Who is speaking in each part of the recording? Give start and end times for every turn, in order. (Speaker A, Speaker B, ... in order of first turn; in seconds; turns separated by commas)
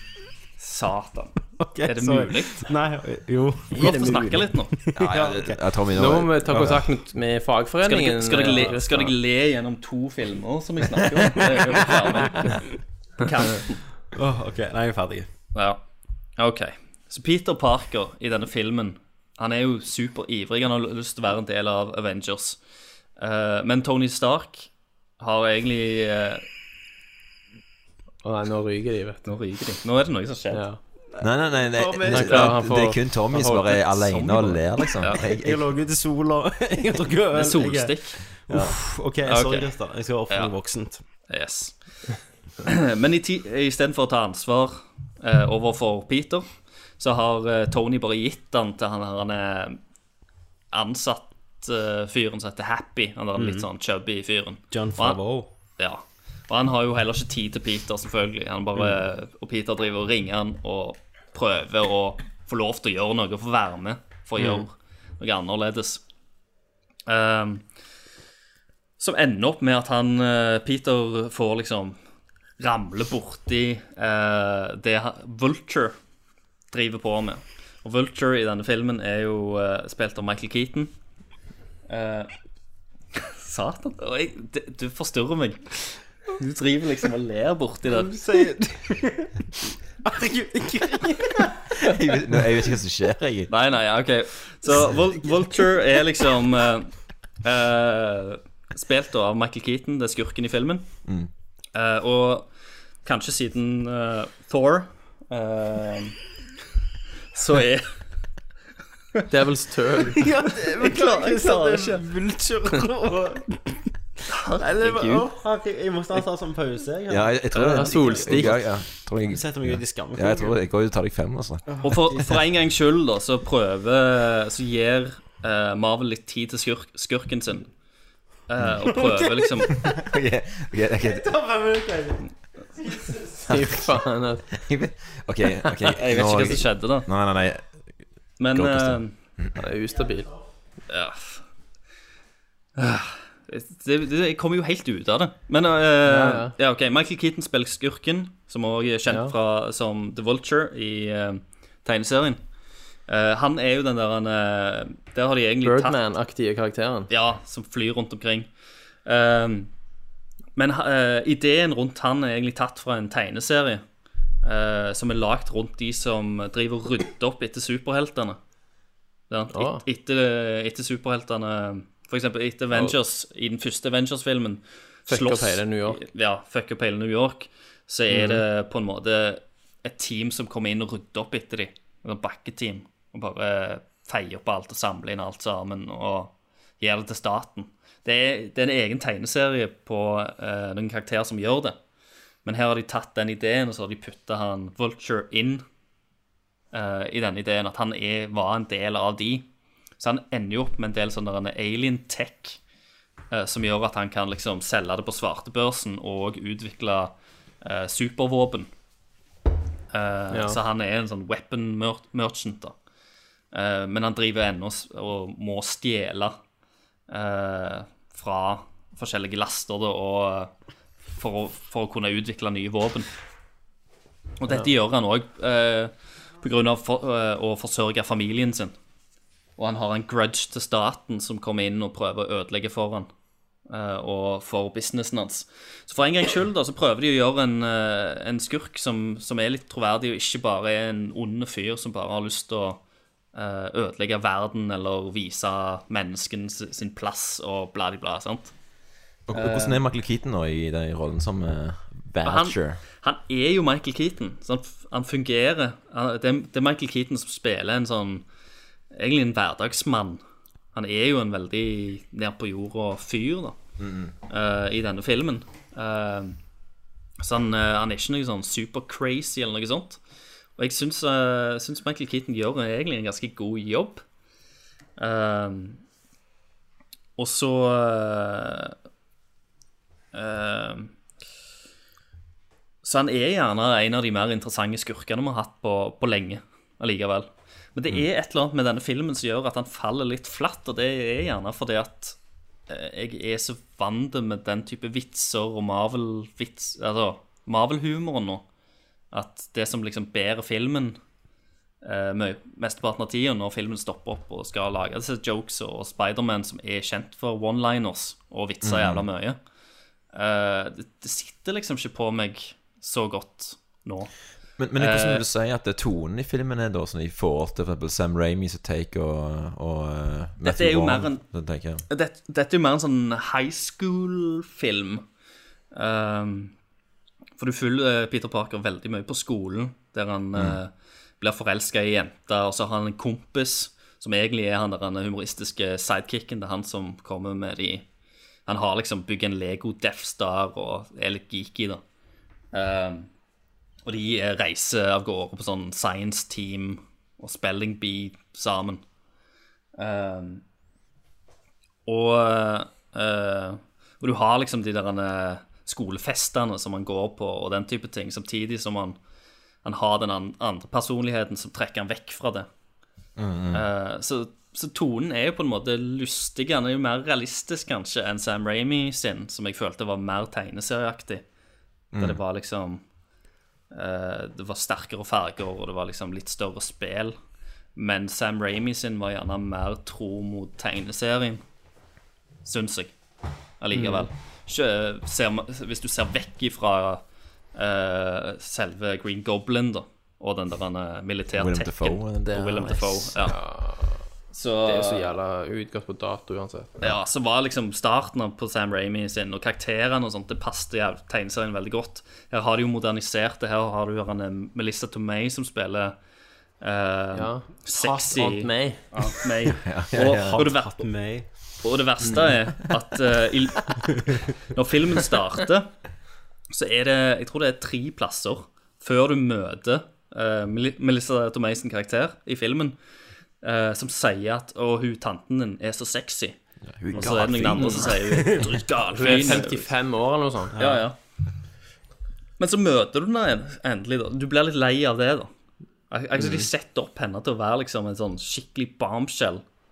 Speaker A: 0.6-2.7, Speaker B: 1.6-5.6, Speaker A: 3.7-4.9, Speaker C: 3.8-4.4, Speaker D: 5.0-6.9, Speaker C: 5.9-9.2, Speaker A: 7.8-13.9, Speaker B: 14.1-15.3, Speaker A: 15.5-15.8, Speaker A: 16.4-22.6, Speaker A: 23.2-26.4, Speaker C: 28.2-29.3, Speaker A: 29.3-30.7, Speaker C: 30.5-30.8, Speaker B: 31.1-32.5, Speaker D: 31.2-35.7, Speaker C: 32.0-34.3, Speaker A: 35.0-35.2, Speaker B: 35.2-41.0, Speaker A: 37.3-38.4, Speaker A: 39.2-39.7, Speaker A: 41.3-49.8, Speaker A: 50.7-55.2, Speaker B: 53.3-53.7, Speaker B: 54.7-55.5, Speaker A: 55.8-66.0, Speaker B: 64.4-64.7, Speaker A: 67.1-67.6, Speaker A: 69.0-72.0, Speaker A: 72.6-76.0, Speaker A: 76.7-80.9, Speaker A: 81.9-82.3, Speaker A: 83.3-88.2, Speaker B: 87.9-91.9, Speaker D: 91.8-93.5, Speaker A: 93.5-96.9, Speaker A: 97.4-100.8, Speaker D: 101.0-101.3, Speaker A: 101.7-102.5, Speaker A: 103.0-106.2, Speaker A: 107.3-107.9, Speaker C: 109.3-110.2, Speaker B: 110.2-113.9, Speaker A: 110.6-112.0, Speaker A: 114.3-115.3, Speaker B: 114.5-120.6, Speaker D: 117.1-121.8, Speaker C: 117.5-118.5, Speaker B: 121.7-122.3, Speaker A: 121.8-127.7, Speaker A: 128.5-129.8, Speaker D: 128.6-128.9, Speaker B: 128.9-129.7, Speaker D: 129.8-131.3, Speaker B: 131.0-132.2, Speaker B: 132.8-133.5, Speaker C: 133.5-134.6, Speaker D: 134.6-137.9, Speaker A: 135.9-137.1, Speaker A: 138.4-139.1, Speaker D: 138.5-139.5, Speaker C: 139.6-140.4, Speaker A: 140.9-141.4, Speaker A: 142.8-152.4, Speaker C: 146.1-146.6, Speaker C: 149.1-149.3, Speaker A: 153.1-156.0, Speaker C: 155.6-157.1, Speaker A: 157.1-158.5, Speaker A: 159.1-159.7, Speaker A: 160.6-163.8, Speaker A: 164.4-168.4, Speaker A: 169.3-191.8, Speaker C: 169.5-169.8, Speaker C: 175.1-176.0, Speaker C: 178.1-178.4, Speaker A: 192.4-195.6, Speaker A: 196.7-199.5, Speaker A: 200.0-202.6, Speaker A: 203.3-208.7, Speaker A: 209.9-212.7, Speaker C: 210.3-210.6, Speaker A: 213.5-216.4, Speaker A: 217.1-220.5, Speaker A: 221.2-223.1, Speaker A: 224.4-228.7, Speaker A: 229.6-233.1, Speaker A: 233.7-242.8, Speaker A: 243.3-248.5, Speaker D: 249.3-252.8, Speaker A: 249.3-249.8, Speaker A: 252.2-258.3, Speaker A: 258.9-260.2, Speaker A: 260.7-263.6, Speaker D: 263.8-264.1, Speaker A: 264.3-266.4, Speaker A: 267.2-270.0, Speaker A: 270.6-274.0, Speaker A: 275.0-275.8, Speaker A: 277.2-278.7, Speaker A: 280.1-280.9, Speaker A: 282.8-292.2, Speaker A: 292.7-298.4, Speaker A: 299.1-301.0, Speaker A: 301.8-309.4, Speaker D: 308.6-309.1, Speaker A: 310.1-314.1, Speaker D: 314.6-321.8, Speaker A: 314.7-315.2, Speaker A: 320.4-321.3, Speaker A: 321.9-325.0, Speaker A: 325.7-326.5, Speaker A: 327.4-337.9, Speaker A: 338.5-341.8, Speaker A: 342.5-343.1, Speaker A: 343.8-348.8, Speaker A: 349.8-350.4, Speaker A: 351.9-359.0, Speaker A: 359.6-362.5, Speaker D: 363.2-363.6, Speaker A: 363.5-371.2, Speaker A: 371.9-372.8, Speaker D: 371.9-372.2, Speaker A: 373.7-377.1, Speaker A: 377.7-381.4, Speaker A: 382.4-382.9, Speaker A: 383.6-387.0, Speaker C: 383.7-384.1, Speaker A: 387.5-393.4, Speaker D: 391.3-393.2, Speaker C: 393.2-394.1, Speaker A: 394.3-395.1, Speaker C: 394.6-396.8, Speaker A: 396.8-405.9, Speaker A: 406.6-410.8, Speaker C: 407.1-409.1, Speaker D: 409.6-410.4, Speaker B: 409.9-411.3, Speaker A: 411.6-415.7, Speaker A: 416.5-422.8, Speaker A: 423.4-426.4, Speaker D: 426.7-428.1, Speaker A: 426.9-429.7, Speaker C: 427.6-427.9, Speaker B: 428.1-428.6, Speaker C: 428.9-430.6, Speaker B: 430.6-430.8, Speaker A: 430.6-430.9, Speaker A: 432.4-435.3, Speaker A: 435.9-439.4